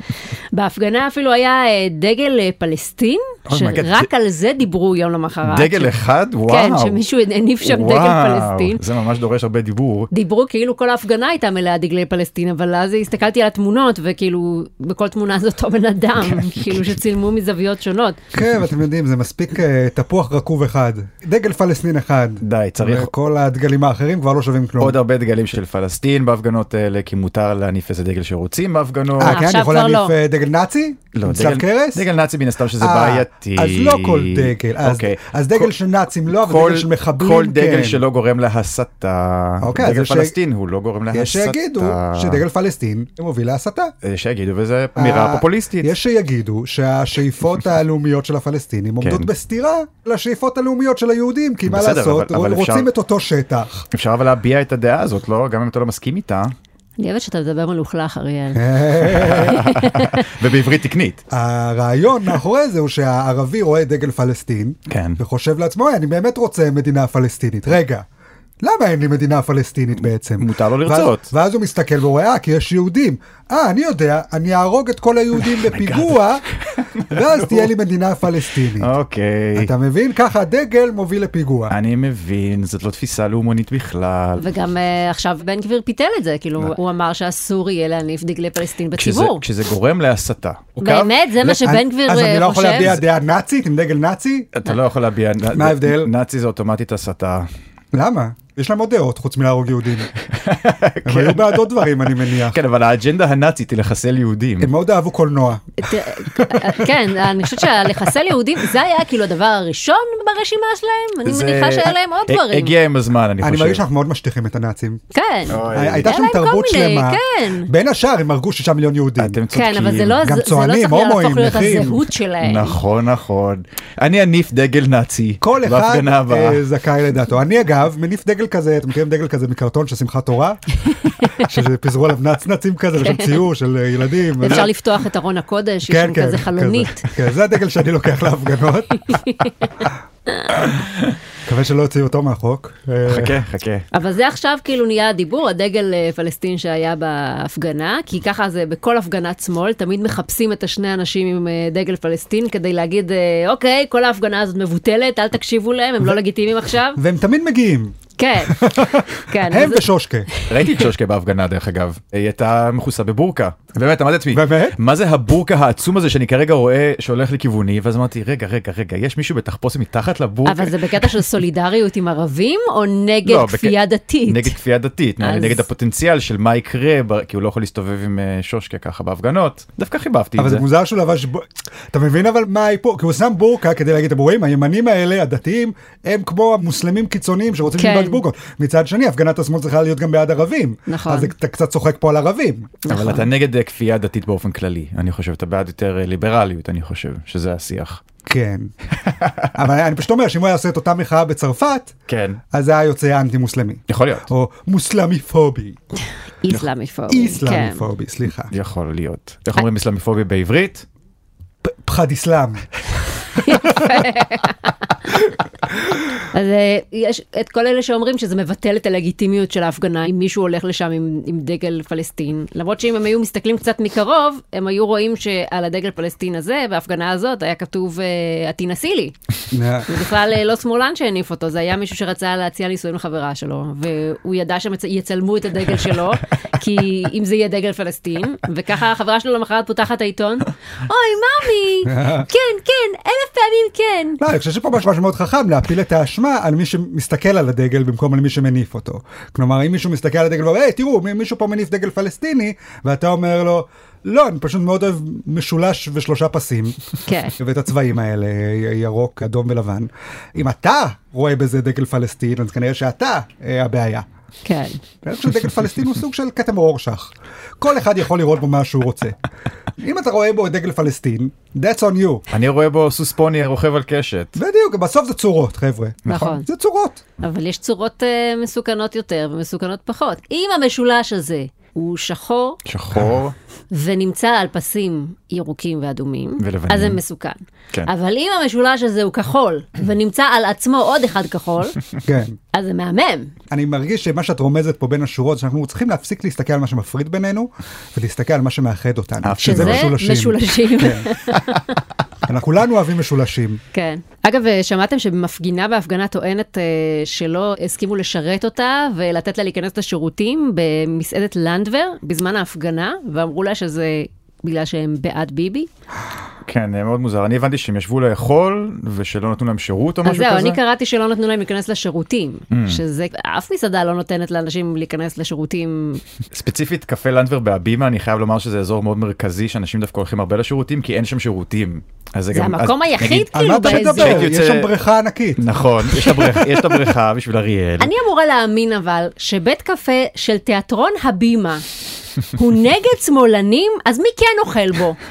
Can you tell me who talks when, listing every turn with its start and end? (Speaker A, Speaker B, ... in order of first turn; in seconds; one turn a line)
Speaker A: 0.5-5.9
Speaker B: 3.5-4.1
Speaker B: 5.4-7.0
Speaker A: 6.5-8.8
Speaker B: 7.6-10.1
Speaker A: 10.1-18.2
Speaker B: 16.3-16.8
Speaker C: 18.3-25.0
Speaker B: 22.4-23.1
Speaker B: 24.8-29.4
Speaker C: 29.2-32.0
Speaker A: 29.2-30.1
Speaker B: 31.1-35.7
Speaker C: 32.8-38.0
Speaker B: 36.3-42.4
Speaker C: 39.6-40.4
Speaker C: 41.1-43.9
Speaker B: 44.0-45.9
Speaker C: 45.0-53.8
Speaker B: 49.0-49.3
Speaker B: 51.7-52.9
Speaker B: 53.9-56.5
Speaker A: 57.0-58.8
Speaker C: 58.5-59.7
Speaker B: 59.1-61.2
Speaker A: 59.4-60.2
Speaker C: 61.3-68.0
Speaker B: 64.9-65.2
Speaker C: 68.6-76.4
Speaker B: 70.4-71.3
Speaker B: 75.5-76.2
Speaker B: 76.7-77.7
Speaker C: 77.1-78.9
Speaker B: 78.8-79.7
Speaker C: 79.5-81.7
Speaker B: 81.7-84.5
Speaker A: 84.4-89.4
Speaker B: 88.9-91.6
Speaker A: 90.8-93.0
Speaker C: 91.6-94.5
Speaker B: 94.5-97.5
Speaker C: 95.5-96.1
Speaker C: 97.9-100.1
Speaker B: 100.2-104.7
Speaker C: 101.0-102.6
Speaker C: 104.6-105.7
Speaker A: 105.8-112.7
Speaker C: 106.3-106.7
Speaker B: 111.2-113.8
Speaker C: 113.4-115.0
Speaker A: 115.1-117.7
Speaker B: 115.5-116.1
Speaker C: 115.7-119.4
Speaker B: 119.2-120.2
Speaker A: 119.5-122.8
Speaker C: 120.2-122.1
Speaker B: 122.4-126.6
Speaker C: 125.4-134.7
Speaker A: 130.9-131.5
Speaker A: 133.0-133.4
Speaker A: 134.4-137.1
Speaker C: 135.9-139.0
Speaker A: 139.0-140.6
Speaker C: 141.4-143.4
Speaker B: 143.1-143.8
Speaker A: 143.9-157.0
Speaker C: 156.9-160.3
Speaker A: 158.2-160.8
Speaker B: 160.4-171.2
Speaker C: 164.3-164.8
Speaker A: 170.4-174.6
Speaker B: 173.2-180.6
Speaker A: 175.2-175.6
Speaker C: 180.4-192.8
Speaker A: 187.8-188.2
Speaker A: 190.9-191.3
Speaker A: 192.8-193.2
Speaker B: 192.9-198.0
Speaker C: 198.2-198.7
Speaker B: 199.0-199.5
Speaker C: 199.5-201.9
Speaker B: 202.1-202.4
Speaker C: 202.5-205.8
Speaker B: 203.9-204.3
Speaker A: 206.4-207.8
Speaker C: 207.1-208.5
Speaker B: 208.5-210.8
Speaker C: 211.6-212.7
Speaker A: 213.3-215.3
Speaker A: 216.3-229.1
Speaker C: 229.5-229.9
Speaker A: 229.8-244.2
Speaker C: 241.8-242.3
Speaker C: 244.2-256.8
Speaker A: 257.1-257.3
Speaker C: 257.3-264.1
Speaker A: 264.4-264.8
Speaker C: 265.0-269.2
Speaker C: 269.8-272.2
Speaker B: 272.3-274.4
Speaker C: 274.4-277.0
Speaker A: 276.1-276.5
Speaker A: 277.2-282.6
Speaker B: 282.6-283.3
Speaker A: 283.7-291.8
Speaker B: 286.4-287.0
Speaker C: 292.0-292.4
Speaker A: 292.5-293.3
Speaker C: 293.5-301.1
Speaker B: 299.2-299.9
Speaker A: 299.4-301.8
Speaker C: 302.3-303.6
Speaker A: 303.7-315.7
Speaker B: 316.5-320.6
Speaker A: 320.0-326.0
Speaker B: 322.5-322.8
Speaker B: 326.3-334.7
Speaker A: 332.3-334.3
Speaker C: 333.3-335.4
Speaker B: 335.4-337.9
Speaker A: 337.8-341.6
Speaker A: 342.3-345.0